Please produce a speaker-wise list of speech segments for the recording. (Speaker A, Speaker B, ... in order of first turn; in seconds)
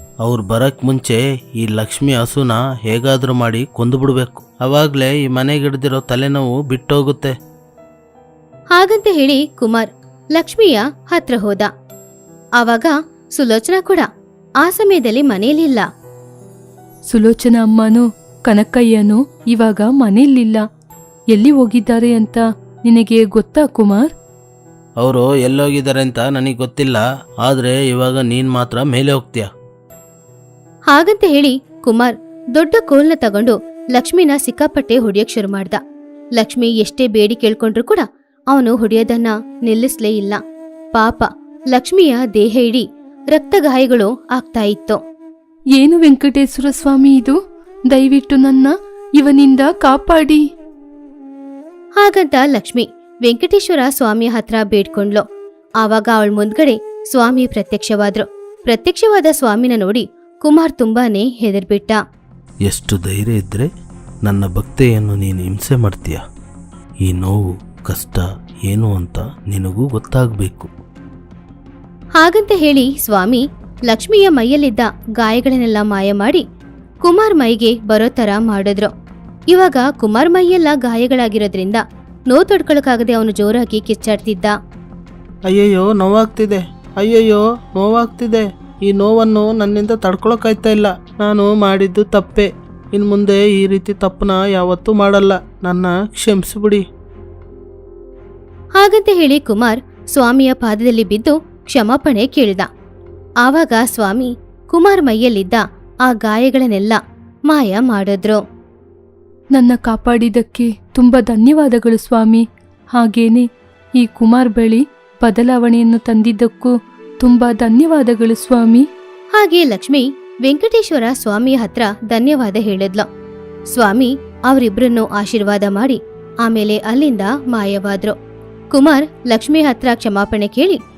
Speaker A: 0.2-7.3, 25.0-29.5, 62.6-63.7, 64.2-66.2, 67.0-70.7, 85.5-96.8
Speaker B: 8.7-11.7, 12.6-14.1, 14.6-15.8, 30.9-35.8, 36.4-40.4, 40.9-45.0, 52.0-55.2, 55.8-62.0, 72.2-76.4, 77.0-78.9, 79.5-84.5, 98.8-102.7, 103.4-108.4, 119.4-123.0, 123.7-128.1, 128.7-130.8
Speaker C: 17.1-20.6, 21.3-24.1, 45.8-47.4, 47.9-50.4, 109.5-112.4, 112.9-113.4, 114.0-118.8